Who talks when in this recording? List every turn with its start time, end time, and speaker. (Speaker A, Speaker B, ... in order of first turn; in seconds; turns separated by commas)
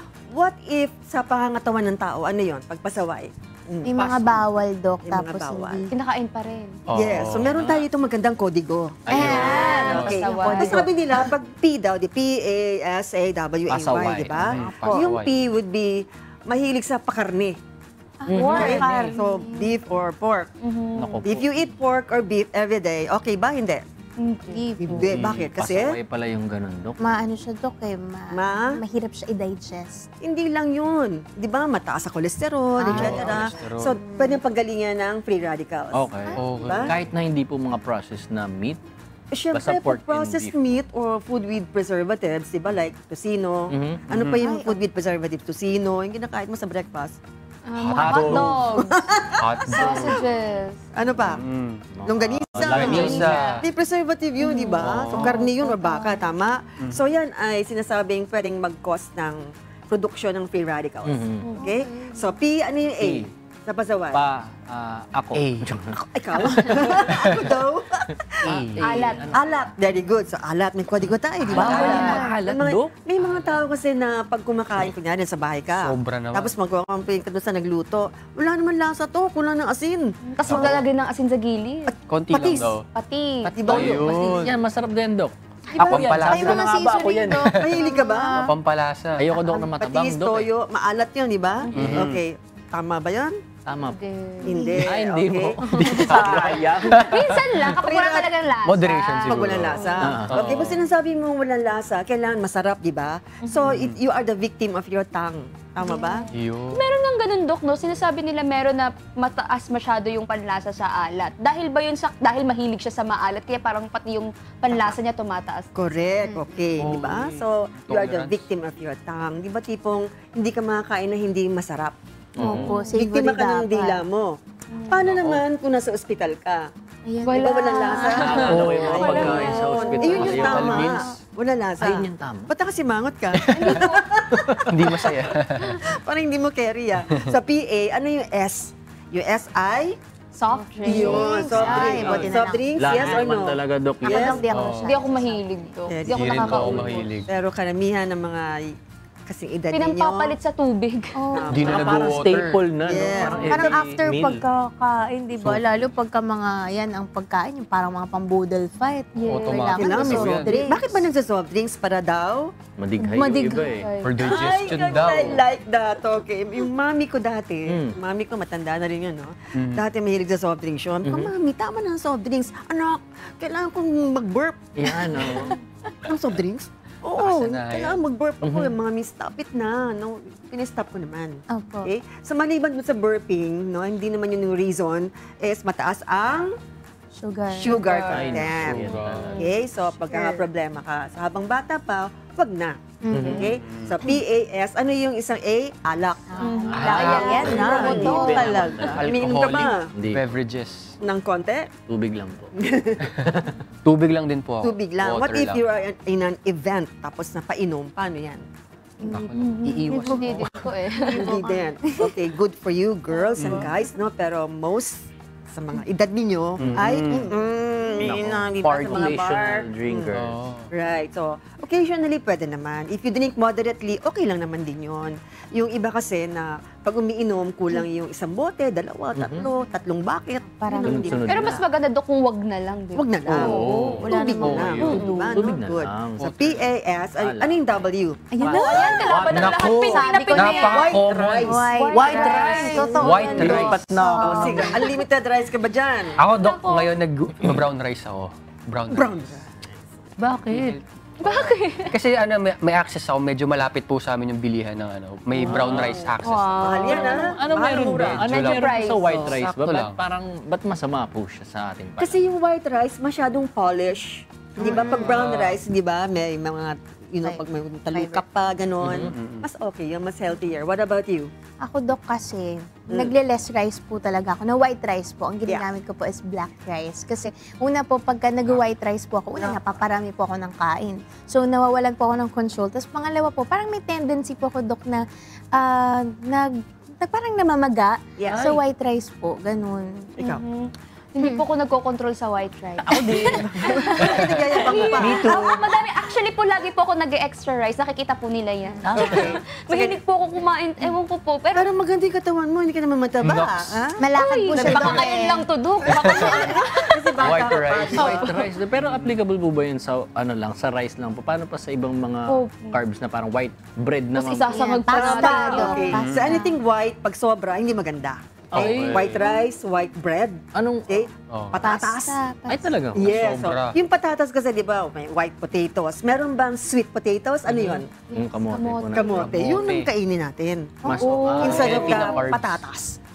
Speaker A: 0.3-4.4, Speaker B: 3.8-5.9, Speaker A: 5.0-5.9, Speaker C: 5.9-6.8, Speaker D: 6.9-7.6, Speaker A: 7.0-17.6, Speaker E: 7.4-7.9, Speaker E: 9.1-9.9, Speaker B: 9.1-11.2, Speaker C: 9.1-10.9, Speaker D: 9.8-10.2, Speaker E: 13.7-14.4, Speaker D: 14.4-15.3, Speaker B: 18.2-19.8, Speaker E: 18.3-18.9, Speaker C: 18.3-19.2, Speaker A: 18.4-20.5, Speaker C: 20.6-21.3, Speaker E: 21.0-21.7, Speaker A: 21.2-23.8, Speaker C: 24.2-24.7, Speaker B: 24.5-25.3, Speaker A: 24.8-26.0, Speaker E: 25.0-27.0, Speaker B: 27.0-30.1, Speaker A: 28.3-28.8, Speaker A: 30.2-37.0, Speaker B: 32.8-33.5, Speaker D: 32.8-34.0, Speaker B: 34.0-34.4, Speaker E: 35.9-38.8, Speaker D: 36.4-37.0, Speaker A: 39.3-47.2, Speaker E: 39.5-40.6, Speaker E: 43.7-44.1, Speaker D: 44.1-44.4, Speaker B: 44.4-44.8, Speaker C: 47.6-49.0, Speaker D: 47.8-48.5, Speaker E: 48.0-48.5, Speaker A: 48.1-50.2, Speaker D: 49.4-50.2, Speaker C: 49.7-50.8, Speaker A: 50.9-51.4, Speaker D: 51.2-51.8, Speaker E: 51.9-53.4, Speaker A: 52.1-64.2, Speaker D: 52.6-53.7, Speaker C: 52.7-53.6, Speaker C: 54.5-56.1, Speaker D: 54.8-55.4, Speaker B: 55.6-56.2, Speaker E: 61.0-61.5, Speaker C: 61.4-61.7, Speaker B: 61.6-62.4, Speaker E: 63.0-63.3, Speaker E: 64.1-67.2, Speaker D: 65.3-65.7, Speaker A: 66.0-68.6, Speaker D: 67.2-67.5, Speaker E: 68.4-69.5, Speaker D: 68.5-69.2, Speaker C: 68.8-69.3, Speaker A: 69.3-80.8, Speaker E: 71.5-72.9, Speaker D: 71.5-72.3, Speaker B: 71.6-72.3, Speaker C: 71.8-72.2, Speaker D: 75.7-76.5, Speaker C: 80.3-82.0, Speaker D: 80.5-80.8, Speaker A: 81.9-82.8, Speaker D: 82.1-82.8, Speaker C: 82.9-84.0, Speaker A: 83.5-84.2, Speaker E: 83.6-87.6, Speaker D: 83.7-84.5, Speaker B: 85.7-88.5, Speaker D: 85.8-86.7, Speaker D: 87.3-89.3, Speaker A: 87.6-88.5, Speaker E: 89.2-90.5, Speaker A: 89.4-93.4, Speaker D: 91.7-92.2, Speaker E: 91.8-92.0, Speaker E: 93.7-94.0, Speaker C: 93.9-94.8, Speaker B: 94.4-94.8, Speaker A: 94.4-96.7, Speaker E: 94.8-97.1, Speaker D: 95.9-97.7, Speaker C: 97.0-100.1, Speaker A: 97.7-98.3, Speaker D: 98.6-100.8, Speaker A: 99.3-106.3, Speaker E: 100.0-100.6, Speaker C: 103.4-103.8, Speaker C: 105.8-115.7, Speaker B: 106.0-106.2, Speaker D: 106.3-106.8, Speaker A: 114.7-115.0, Speaker A: 115.8-122.0, Speaker D: 116.8-118.5, Speaker E: 122.4-122.8, Speaker B: 122.4-124.0, Speaker C: 122.4-122.9, Speaker A: 122.9-126.7, Speaker C: 124.7-125.0, Speaker D: 125.0-125.4, Speaker B: 127.1-128.4, Speaker C: 127.2-130.8, Speaker A: 127.3-135.1, Speaker E: 128.1-130.8, Speaker D: 128.5-129.3, Speaker B: 129.7-130.0, Speaker D: 130.2-131.1, Speaker B: 130.5-131.1, Speaker E: 131.8-132.5, Speaker D: 133.3-133.8, Speaker C: 133.6-134.0, Speaker E: 134.3-135.1, Speaker D: 134.7-135.8, Speaker A: 135.7-140.0, Speaker C: 140.3-142.2, Speaker B: 140.6-143.3, Speaker A: 140.8-144.5, Speaker E: 141.5-144.4, Speaker B: 144.0-146.0, Speaker C: 144.1-147.1, Speaker D: 144.4-144.9, Speaker A: 145.9-148.7, Speaker D: 146.1-147.3, Speaker A: 149.3-150.3, Speaker C: 149.7-151.7, Speaker B: 151.2-151.7, Speaker A: 151.3-152.1, Speaker D: 151.5-152.6, Speaker E: 151.7-154.4, Speaker A: 152.8-153.8, Speaker B: 153.1-161.1, Speaker E: 155.4-155.6, Speaker C: 159.2-160.2, Speaker D: 159.3-160.6, Speaker A: 159.5-162.5, Speaker E: 162.8-163.9, Speaker C: 163.0-164.4, Speaker B: 163.2-163.7, Speaker D: 164.0-165.4, Speaker A: 164.2-175.5, Speaker E: 167.7-168.0, Speaker D: 169.6-169.8, Speaker E: 171.0-171.3, Speaker E: 174.8-175.6, Speaker A: 176.1-186.5, Speaker D: 177.2-178.0, Speaker E: 178.4-178.8, Speaker B: 181.5-181.9, Speaker B: 187.2-187.8, Speaker A: 187.6-199.9, Speaker C: 187.6-188.4, Speaker E: 188.1-189.4, Speaker D: 188.4-189.4, Speaker C: 189.3-189.6, Speaker B: 190.1-190.4, Speaker B: 193.0-193.5, Speaker E: 193.1-193.5, Speaker C: 193.1-193.5, Speaker D: 193.6-194.0, Speaker B: 196.3-198.8, Speaker C: 196.4-198.9, Speaker E: 196.7-199.1, Speaker D: 196.7-197.7, Speaker D: 198.5-201.0, Speaker E: 199.9-200.3, Speaker A: 201.0-201.7, Speaker E: 201.9-202.5, Speaker A: 202.6-203.0, Speaker D: 203.2-205.6, Speaker E: 203.3-203.6, Speaker A: 204.6-208.4, Speaker B: 209.0-210.4, Speaker D: 209.1-210.5, Speaker C: 209.3-211.4, Speaker B: 210.9-212.1, Speaker A: 211.1-220.1, Speaker E: 213.4-213.7, Speaker D: 213.4-213.7, Speaker E: 216.6-216.8, Speaker D: 216.6-217.3, Speaker E: 218.0-220.4, Speaker D: 218.0-219.2, Speaker D: 220.1-220.7, Speaker A: 220.7-231.6, Speaker E: 229.2-229.4, Speaker B: 230.5-231.3, Speaker E: 230.8-231.6, Speaker C: 231.3-235.5, Speaker A: 232.9-239.2, Speaker D: 233.3-235.1, Speaker B: 233.4-234.7, Speaker E: 234.8-236.6, Speaker D: 236.2-236.7, Speaker E: 237.2-237.7, Speaker B: 238.3-239.3, Speaker C: 238.4-240.9, Speaker E: 238.4-239.7, Speaker D: 239.3-241.6, Speaker B: 239.9-244.9, Speaker A: 240.4-243.7, Speaker C: 241.7-243.6, Speaker E: 241.9-244.8, Speaker D: 242.9-244.1, Speaker A: 244.2-246.2, Speaker C: 244.4-244.9, Speaker D: 246.2-249.2, Speaker C: 246.3-246.9, Speaker A: 248.9-249.6, Speaker E: 250.2-250.8, Speaker D: 250.5-256.9, Speaker C: 251.2-251.9, Speaker A: 255.4-258.3, Speaker E: 255.4-256.1, Speaker C: 256.2-257.4, Speaker E: 256.8-262.2, Speaker D: 257.7-260.0, Speaker C: 258.3-259.1, Speaker A: 262.0-271.3, Speaker D: 264.6-265.6, Speaker B: 267.2-268.2, Speaker E: 268.8-269.1, Speaker D: 268.9-269.5, Speaker B: 271.6-285.0, Speaker A: 279.4-279.6, Speaker B: 285.5-290.1, Speaker A: 288.2-288.5, Speaker E: 288.3-288.6, Speaker A: 290.2-290.4, Speaker C: 290.2-301.7, Speaker E: 292.8-293.9, Speaker A: 293.6-295.5, Speaker E: 295.0-295.4, Speaker E: 298.8-299.4, Speaker A: 298.9-300.0, Speaker A: 301.5-304.1, Speaker D: 303.2-303.8, Speaker B: 304.0-305.4, Speaker C: 304.2-308.5, Speaker D: 304.6-305.0, Speaker A: 304.6-304.9, Speaker A: 305.8-308.3, Speaker D: 305.9-306.4, Speaker D: 307.2-308.1, Speaker E: 307.9-314.6, Speaker C: 312.3-312.8, Speaker C: 314.1-316.0, Speaker B: 314.5-316.6, Speaker A: 314.9-322.2, Speaker D: 315.9-316.4, Speaker E: 318.5-319.3, Speaker C: 318.6-319.5, Speaker E: 320.6-321.1, Speaker D: 321.3-321.7, Speaker B: 321.6-322.7, Speaker E: 322.5-323.3, Speaker A: 323.0-327.9, Speaker D: 323.0-323.8, Speaker E: 327.5-329.7, Speaker C: 328.1-329.3, Speaker A: 328.9-333.0, Speaker D: 329.1-329.9, Speaker B: 330.8-332.0, Speaker E: 330.9-332.2, Speaker D: 331.0-332.6